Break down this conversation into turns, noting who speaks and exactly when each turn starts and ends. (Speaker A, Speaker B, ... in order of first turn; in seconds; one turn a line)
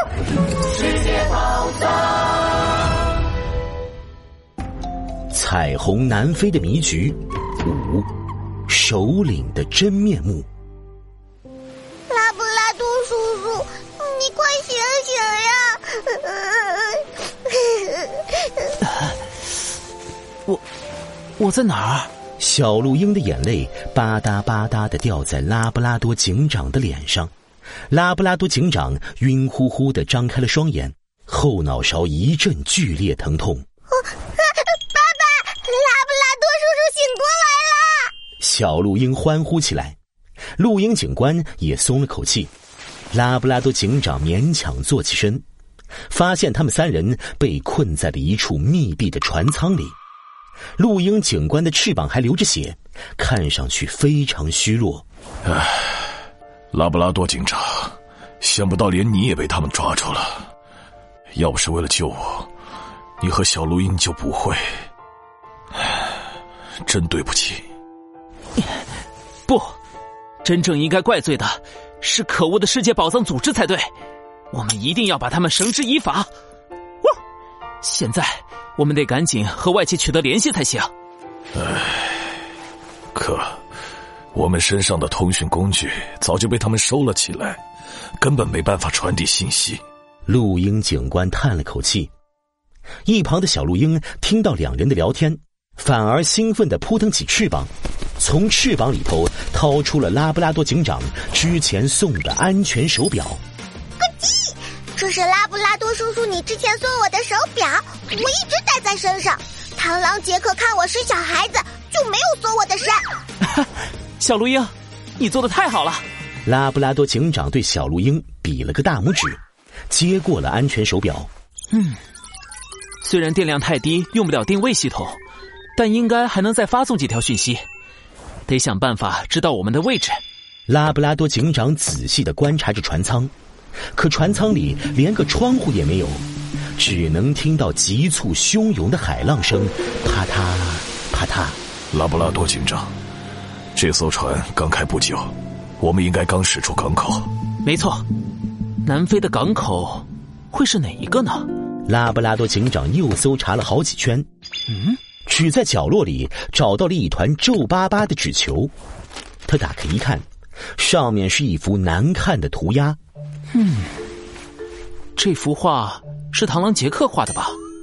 Speaker A: 0.9-1.7
Speaker B: 5.3-8.1
Speaker B: 8.7-10.5
Speaker A: 12.1-18.7
Speaker C: 21.4-22.1
Speaker B: 22.4-27.3
Speaker B: 27.9-33.6
Speaker A: 33.9-38.1
Speaker B: 38.4-40.0
Speaker B: 40.6-42.5
Speaker B: 43.1-45.4
Speaker B: 46.1-50.0
Speaker B: 50.8-55.0
Speaker D: 55.5-56.0
Speaker D: 56.7-60.5
Speaker D: 61.3-62.5
Speaker D: 63.2-64.6
Speaker D: 66.8-67.6
Speaker C: 69.5-69.7
Speaker C: 70.4-73.9
Speaker C: 74.5-76.3
Speaker C: 77.8-80.9
Speaker D: 81.6-82.2
Speaker D: 83.1-83.6
Speaker D: 84.3-87.6
Speaker D: 88.2-89.8
Speaker B: 90.3-92.1
Speaker B: 93.0-103.4
Speaker A: 104.0-113.0
Speaker C: 114.2-116.0
Speaker B: 116.5-121.3
Speaker C: 121.7-122.0
Speaker C: 123.0-125.2
Speaker C: 125.8-127.6
Speaker C: 128.5-130.2
Speaker B: 130.7-133.3
Speaker B: 133.9-141.6
Speaker D: 141.9-142.9
Speaker D: 143.8-147.3
Speaker C: 147.7-148.0
Speaker C: 148.8-151.5
Speaker B: 151.9-154.3
Speaker C: 154.7-155.0
Speaker B: 155.3-158.7
Speaker B: 159.5-163.0
Speaker C: 163.5-163.9
Speaker C: 165.2-167.6